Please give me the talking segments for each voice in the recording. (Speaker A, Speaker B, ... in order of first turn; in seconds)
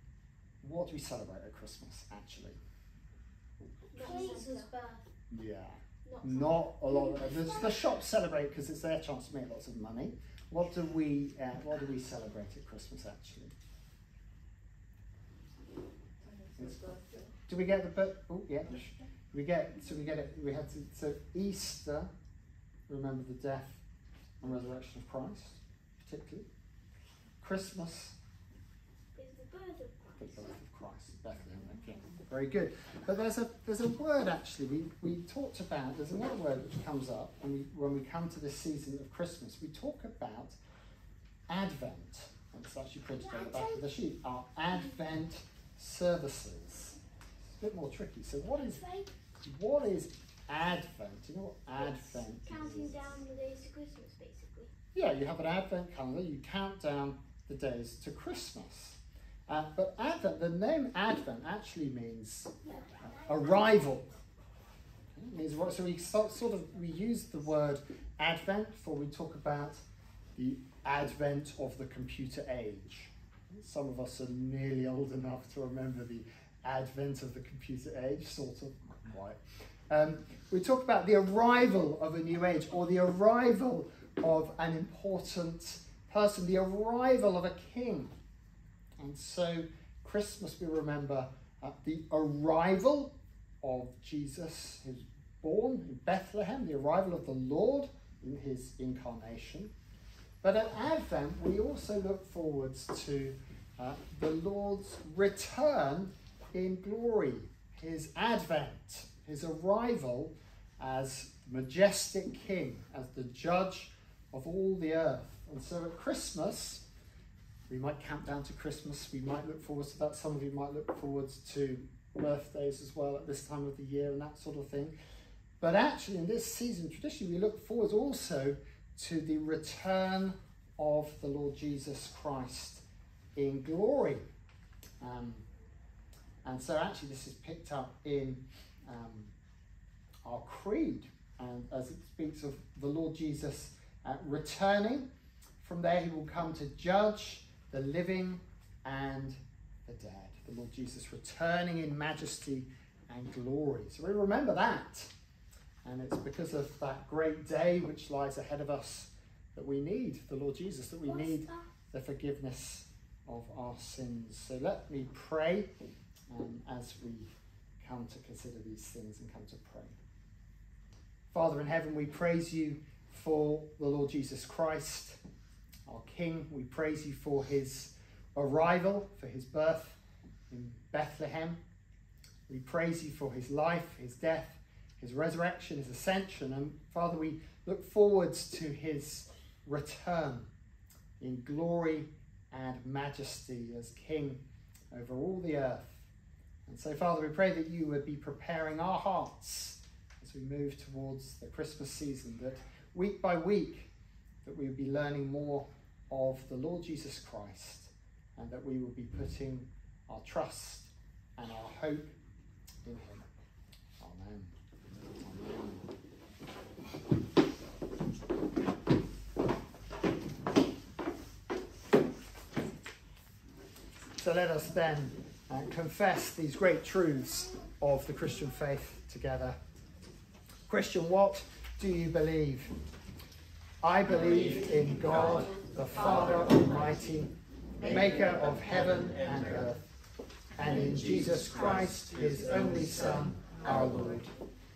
Speaker A: 0.6-2.6, 4.0-4.3, 5.3-13.5, 16.6-22.1, 22.9-23.8, 24.4-26.5, 27.4-28.2, 30.2-40.6, 41.5-47.0, 47.6-48.9, 49.4-53.2, 55.0-64.1, 65.1-69.8, 70.4-88.1, 89.0-99.7, 100.4-116.8, 117.7-125.0, 125.6-132.8, 133.3-134.2, 135.0-135.5, 136.4-139.3, 140.2-145.1, 145.6-155.1, 155.8-165.7, 166.3-167.3, 167.8-169.9, 171.3-175.2, 175.9-180.0, 180.5-181.6, 182.5-190.5, 191.2-196.1, 196.7-203.9, 204.4-212.2, 212.8-213.3, 214.0-214.5, 215.2-215.9, 224.2-229.6, 230.7-232.7, 233.8-237.3, 237.9-239.8, 240.6-244.3
Speaker B: 3.9-5.0, 6.1-7.6, 29.2-30.5, 43.3-43.8, 48.8-49.1, 52.5-54.7